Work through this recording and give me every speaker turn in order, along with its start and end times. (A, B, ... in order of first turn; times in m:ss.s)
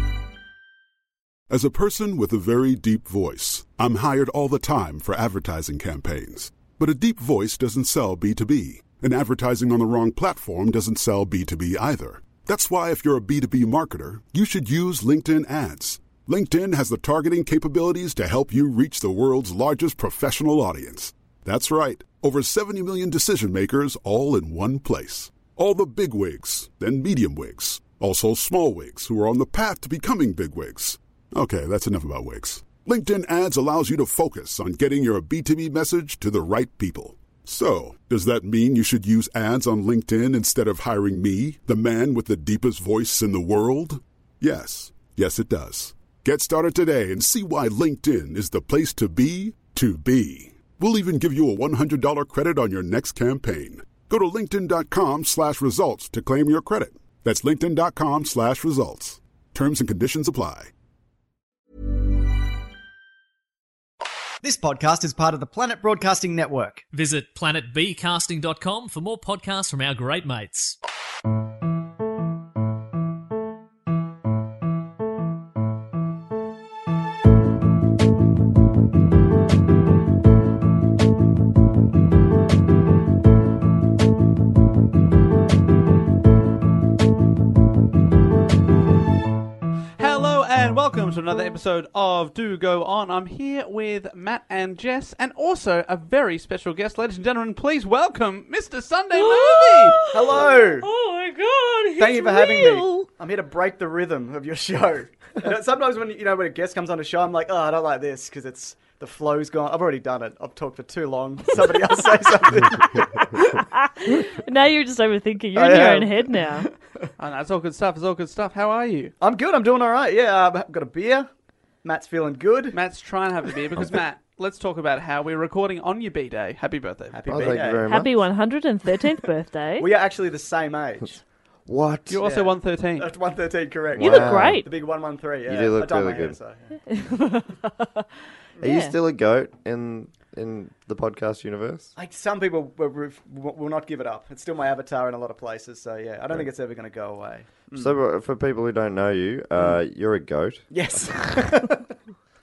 0:01.5-1:00.7 A
1:04.4-1:06.8 B
1:06.9-1:10.8 C
1:30.0-1:40.1 D
1:39.2-1:43.1 E
1:40.1-1:40.9 B
1:42.0-1:53.6 B
1:53.6-1:56.7 E
1:55.5-1:57.1 B
1:57.2-1:59.1 D
1:59.2-2:01.3 B
2:01.8-2:02.8 B
2:02.7-2:07.6 D
2:07.1-2:07.8 B
2:07.3-2:08.2 F
2:07.9-2:09.9 E
2:09.8-2:11.2 B
2:11.7-2:12.2 F
2:12.1-2:13.1 D
2:12.2-2:16.6 B
2:14.0-2:14.6 F
2:14.0-2:14.7 E
2:15.4-2:16.4 F
2:16.9-2:18.0 E
2:18.6-2:21.9 F
2:18.6-2:18.9 E
2:22.0-2:27.9 B
2:27.7-2:30.7 F
2:30.7-2:31.9 B